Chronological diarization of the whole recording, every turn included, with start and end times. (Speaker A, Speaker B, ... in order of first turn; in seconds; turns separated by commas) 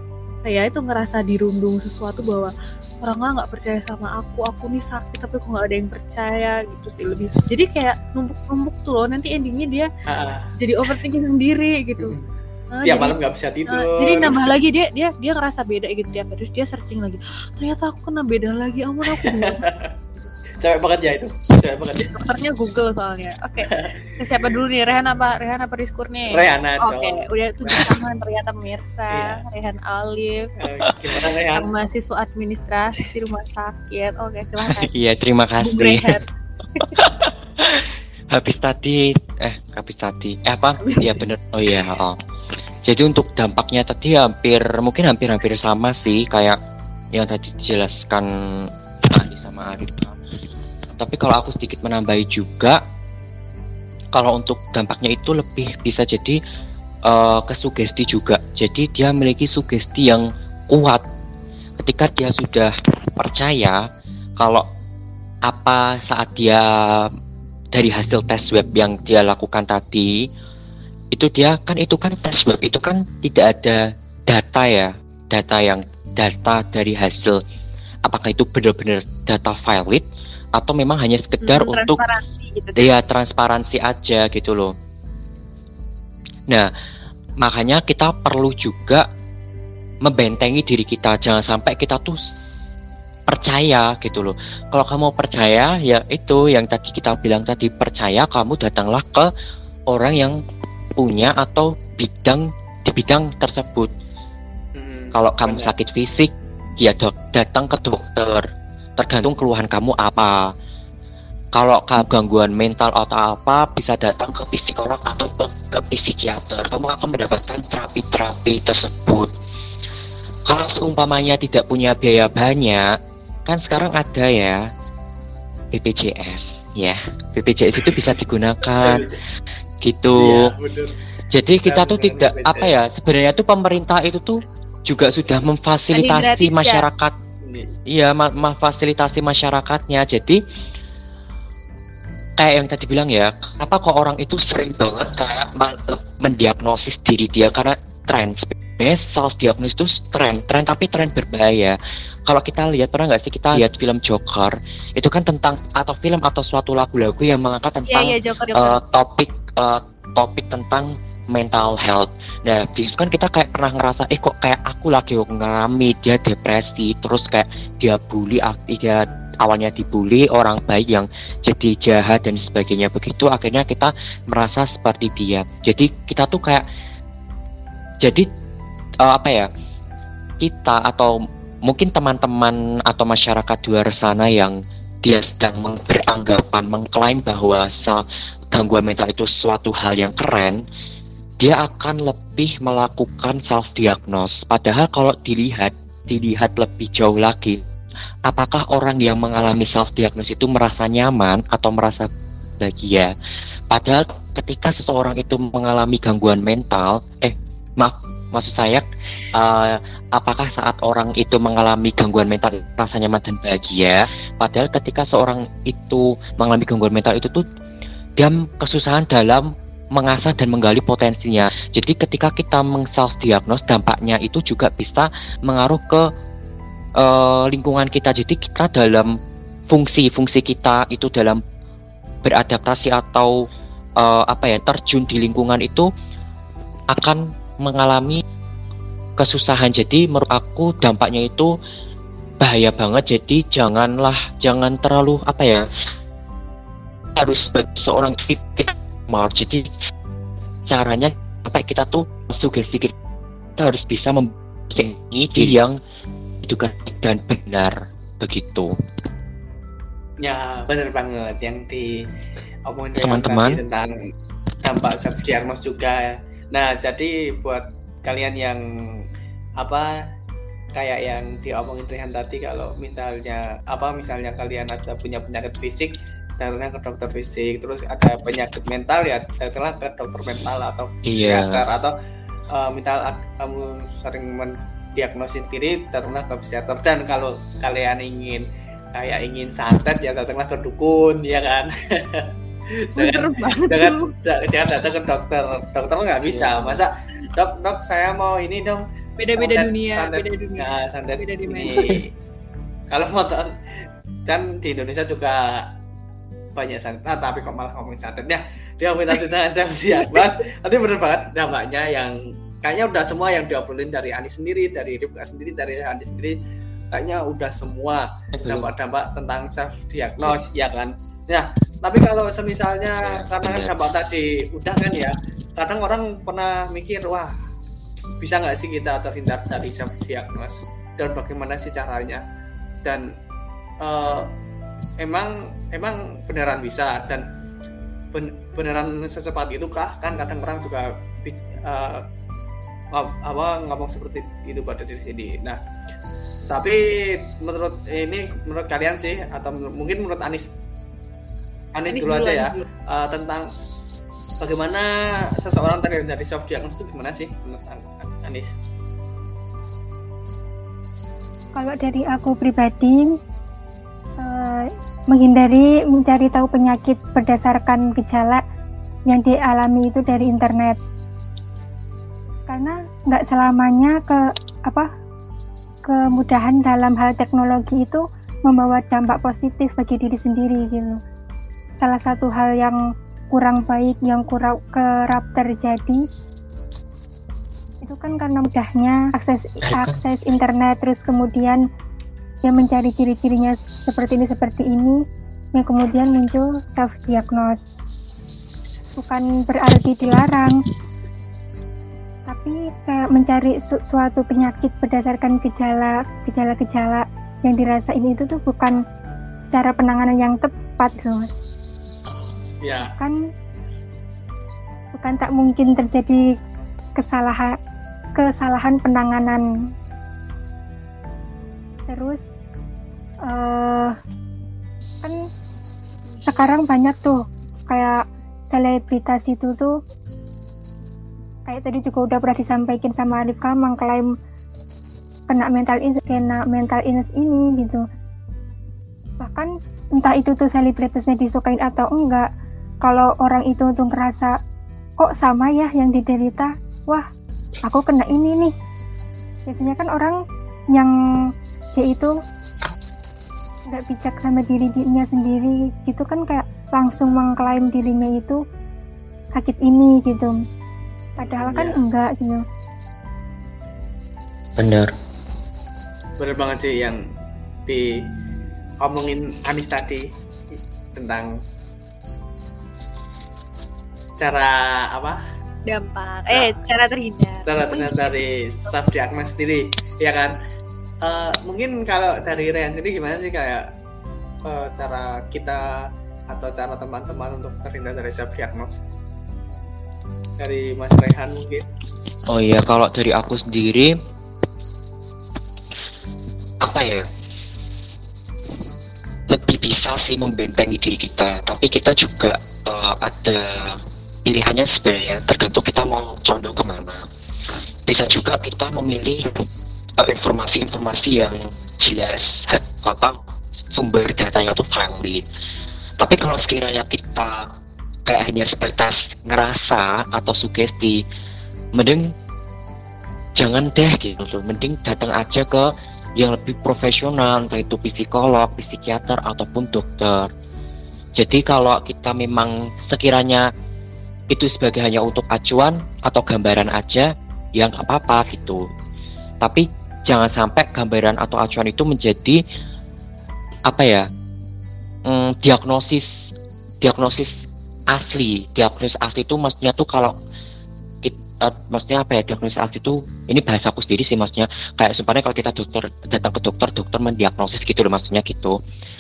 Speaker A: 0.4-9.9, Speaker B: 10.1-10.5, Speaker A: 10.6-12.1, Speaker B: 12.0-12.2, Speaker A: 12.7-13.2, Speaker B: 12.8-14.5, Speaker A: 13.7-19.6, Speaker B: 19.2-19.9, Speaker B: 20.6-22.2, Speaker A: 22.1-30.5, Speaker B: 24.4-25.2, Speaker B: 26.3-27.9, Speaker B: 29.1-29.4, Speaker B: 30.6-31.7, Speaker C: 30.9-31.2, Speaker A: 31.5-34.9, Speaker C: 34.9-36.2, Speaker A: 35.6-36.2, Speaker C: 36.8-42.2, Speaker A: 40.8-41.2, Speaker C: 42.9-46.6, Speaker C: 47.1-50.1, Speaker C: 51.0-52.8, Speaker C: 54.1-56.4, Speaker C: 57.0-61.0, Speaker C: 61.8-63.8, Speaker C: 64.4-64.7, Speaker C: 65.4-67.1, Speaker C: 67.7-70.3, Speaker C: 71.1-77.4, Speaker C: 78.0-82.0, Speaker A: 81.4-82.9, Speaker C: 82.8-84.7, Speaker C: 87.4-89.1, Speaker C: 90.0-92.3, Speaker C: 93.3-99.3, Speaker C: 99.9-100.4, Speaker C: 101.0-103.9, Speaker B: 104.8-105.7, Speaker C: 105.1-108.5, Speaker C: 109.0-110.5, Speaker C: 111.5-119.3, Speaker C: 120.5-122.9, Speaker C: 123.5-124.7, Speaker C: 125.7-129.1, Speaker B: 127.8-128.1, Speaker B: 128.7-129.2, Speaker C: 129.8-130.5, Speaker B: 130.2-130.9, Speaker C: 131.3-137.1, Speaker B: 131.6-132.7, Speaker A: 135.9-136.8, Speaker B: 137.4-137.7, Speaker C: 137.9-140.4, Speaker C: 142.4-176.7, Speaker A: 157.9-158.8, Speaker C: 178.0-178.3, Speaker C: 179.0-179.5, Speaker C: 180.4-190.6, Speaker C: 191.4-197.6, Speaker C: 198.2-202.1, Speaker C: 202.6-203.1, Speaker C: 203.7-217.4, Speaker C: 218.2-226.1, Speaker C: 226.9-229.2, Speaker C: 229.7-231.4, Speaker C: 232.2-233.4, Speaker C: 234.0-235.9, Speaker C: 236.9-238.2, Speaker C: 239.2-241.5, Speaker C: 242.4-245.7, Speaker C: 247.1-249.7, Speaker C: 250.7-252.9, Speaker C: 253.6-255.8, Speaker C: 256.5-258.7, Speaker B: 260.2-262.0, Speaker B: 262.6-264.0, Speaker C: 262.9-263.6, Speaker B: 264.6-269.0, Speaker B: 269.6-269.9, Speaker B: 270.7-281.9, Speaker C: 281.1-281.6, Speaker B: 282.5-292.3, Speaker B: 292.9-302.1, Speaker A: 292.9-294.1, Speaker C: 296.2-296.8, Speaker A: 299.2-301.9, Speaker B: 302.9-303.5, Speaker B: 304.2-305.7, Speaker B: 306.5-316.4, Speaker A: 310.0-310.2, Speaker B: 316.9-327.3, Speaker C: 318.4-318.7, Speaker C: 323.0-323.7, Speaker B: 328.2-332.2, Speaker B: 333.8-334.3, Speaker B: 335.0-337.2, Speaker B: 338.1-342.0, Speaker B: 342.9-345.6, Speaker B: 346.5-350.5, Speaker B: 351.7-353.5, Speaker A: 351.9-352.6, Speaker B: 354.4-358.5, Speaker D: 361.5-363.1, Speaker D: 364.2-368.4, Speaker D: 369.1-370.8, Speaker D: 372.5-374.9, Speaker D: 375.8-381.0, Speaker D: 381.8-382.8, Speaker D: 383.3-386.0, Speaker D: 387.8-391.6, Speaker C: 389.6-390.0, Speaker D: 392.4-395.0, Speaker D: 395.6-397.7, Speaker D: 399.0-400.6, Speaker D: 402.3-408.8, Speaker D: 409.5-411.3, Speaker B: 412.1-412.9, Speaker D: 412.8-413.2, Speaker D: 414.9-416.2, Speaker D: 417.0-417.5, Speaker D: 418.2-419.4, Speaker D: 421.9-422.2, Speaker D: 423.2-423.9, Speaker D: 426.2-429.8, Speaker D: 431.4-434.1, Speaker D: 435.3-437.8, Speaker D: 439.2-442.3, Speaker D: 442.8-444.3, Speaker D: 445.0-447.1, Speaker D: 447.6-448.5, Speaker D: 449.5-450.2, Speaker D: 451.8-452.1, Speaker D: 453.7-458.4, Speaker D: 459.3-460.4, Speaker D: 461.2-462.4, Speaker B: 461.2-461.8, Speaker C: 464.6-464.9, Speaker B: 466.2-467.0, Speaker B: 467.7-468.0, Speaker B: 468.8-470.1, Speaker B: 470.9-471.3, Speaker B: 474.2-475.2, Speaker A: 475.7-477.9, Speaker B: 477.5-480.3, Speaker B: 481.0-483.6, Speaker B: 484.4-485.8, Speaker B: 486.3-488.8, Speaker B: 490.4-491.6, Speaker C: 492.3-493.9, Speaker C: 496.6-497.1, Speaker C: 499.3-507.1, Speaker C: 507.9-509.3, Speaker C: 510.0-515.2, Speaker C: 516.0-517.5, Speaker C: 518.0-521.0, Speaker C: 521.7-522.1, Speaker C: 523.4-530.3, Speaker C: 531.2-533.5, Speaker C: 534.3-538.7, Speaker C: 539.4-542.4, Speaker C: 543.7-544.1, Speaker C: 545.0-546.3, Speaker C: 546.8-550.1, Speaker C: 551.0-558.6